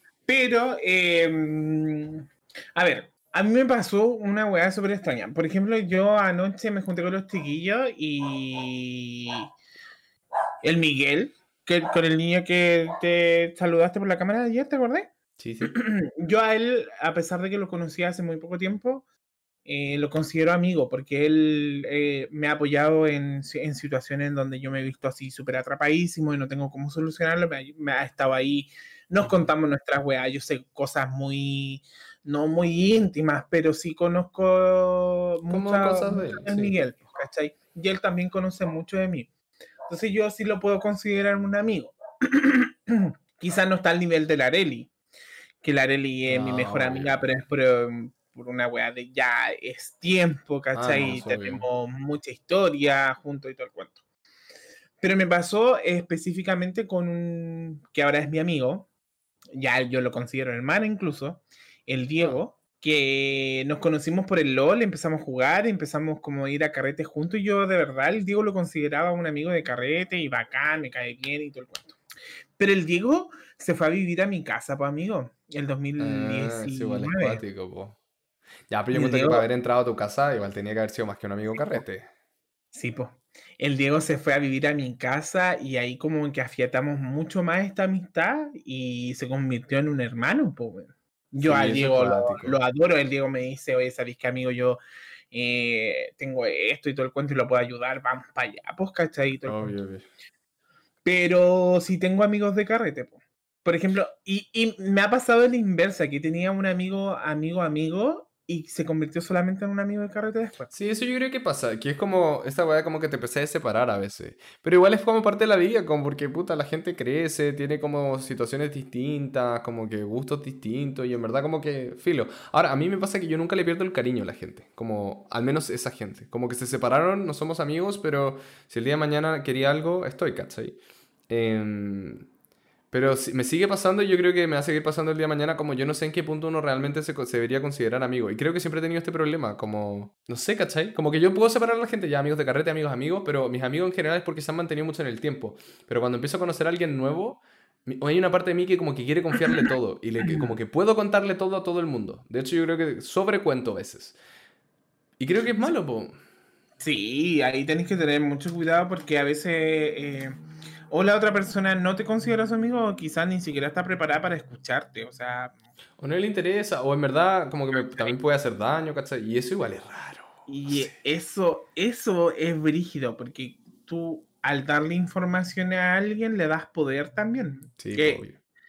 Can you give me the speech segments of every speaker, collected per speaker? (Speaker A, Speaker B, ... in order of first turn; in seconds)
Speaker A: 0.2-9.5, 10.6-15.1, 15.6-19.0, 19.6-39.3, 39.9-44.9, 45.6-54.0, 55.0-58.9, 59.5-72.0, 72.6-77.4, 78.9-79.5, 81.5-81.8, 82.7-94.8, 95.3-99.8, 101.0-110.7, 150.2-150.5, 156.8-160.4, 160.9-165.5, 167.7-168.1, 170.5-178.2
Speaker B: 15.4-15.7, 35.5-36.8, 46.2-47.2, 50.7-51.7, 76.0-78.0, 78.7-82.1, 91.4-92.6, 99.5-100.0, 110.7-130.8, 131.3-132.2, 132.9-154.2, 155.2-156.1, 166.0-170.9, 177.8-178.4